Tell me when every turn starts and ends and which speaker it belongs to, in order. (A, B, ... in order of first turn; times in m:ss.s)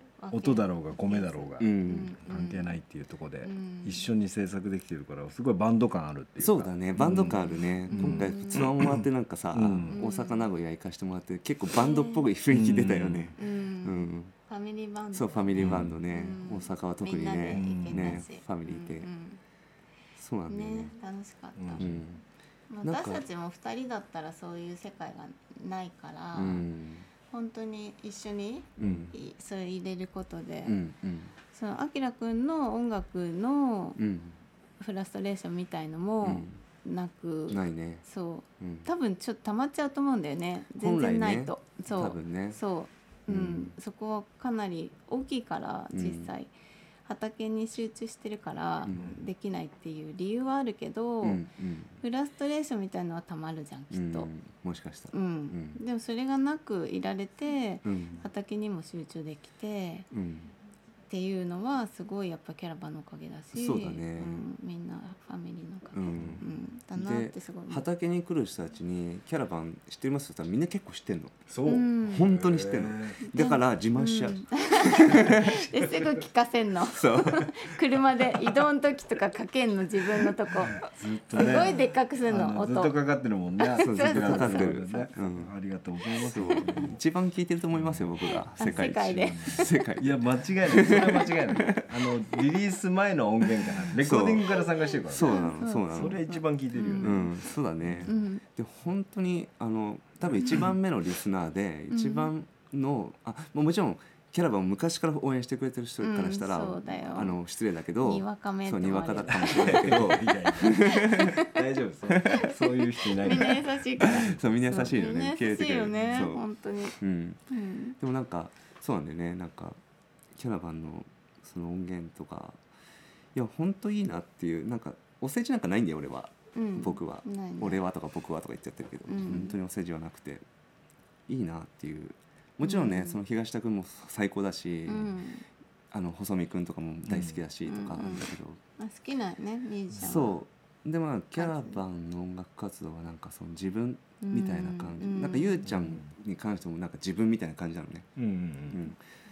0:00.2-0:02.7 A
0:00.3-0:10.0 B
0:01.6-0:02.1 C
0:03.4-0:04.0 A
0:06.4-0:14.3 C
0:07.2-0:08.7 A
0:09.9-0:10.4 A
0:11.7-0:12.3 A
0:12.5-0:13.4 B
0:13.4-0:19.4 A
0:15.1-0:19.1 C
0:15.6-0:15.9 B
0:17.5-0:18.2 B
0:20.2-0:20.9 C
0:20.5-0:21.9 A
0:21.6-0:22.0 B
0:21.8-0:22.2 C
0:22.7-0:26.6 A
0:22.8-0:23.2 C
0:26.3-0:27.0 C
0:27.3-0:30.8 A
0:28.8-0:29.1 C
0:28.8-0:29.1 B
0:30.6-0:31.3 C
0:31.5-0:34.0 A
0:34.0-0:34.4 C
0:34.8-0:46.5 A
0:36.2-0:36.5 C
0:37.5-0:38.0 C
0:38.6-0:38.9 C
0:40.8-0:42.6 C
0:43.3-0:43.7 C
0:45.9-0:46.3 C
0:47.0-0:51.4 A
0:48.8-0:49.1 C
0:51.2-0:52.0 C
0:52.0-0:54.3 A
0:53.9-0:55.8 C
0:55.1-1:00.1 A
0:57.8-0:58.2 C
1:00.1-1:00.5 C
1:01.1-1:07.8 A
1:03.5-1:04.4 C
1:05.9-1:06.4 C
1:06.2-1:06.4 B
1:06.9-1:11.5 C
1:11.5-1:13.2 B
1:11.6-1:12.3 A
1:12.0-1:15.7 C
1:13.2-1:22.9 A
1:16.8-1:17.8 C
1:20.6-1:27.0 B
1:21.4-1:21.7 C
1:23.6-1:25.1 A
1:23.8-1:25.5 C
1:26.2-1:26.7 A
1:26.2-1:32.4 C
1:27.7-1:28.7 B
1:28.2-1:29.8 A
1:29.4-1:35.4 B
1:33.6-1:36.2 C
1:34.8-1:37.3 A
1:35.9-1:38.2 B
1:37.0-1:51.4 C
1:38.0-1:38.4 A
1:41.9-1:42.3 A
1:46.0-1:47.4 A
1:48.0-1:50.0 A
1:49.4-1:54.4 B
1:50.6-1:51.5 A
1:52.1-1:52.6 C
1:53.2-1:57.0 A
1:53.2-1:56.4 C
1:57.0-1:57.4 C
1:57.5-1:58.0 A
1:58.0-1:59.8 C
2:00.4-2:02.6 C
2:03.3-2:10.4 C
2:06.5-2:07.8 A
2:09.1-2:09.6 A
2:11.3-2:15.2 C
2:12.6-2:13.2 A
2:14.9-2:15.4 A
2:15.9-2:18.6 C
2:17.1-2:17.4 B
2:17.6-2:20.4 A
2:20.0-2:28.1 C
2:21.4-2:21.8 A
2:24.2-2:25.6 A
2:25.7-2:26.0 B
2:28.2-2:28.8 B
2:28.7-2:29.0 C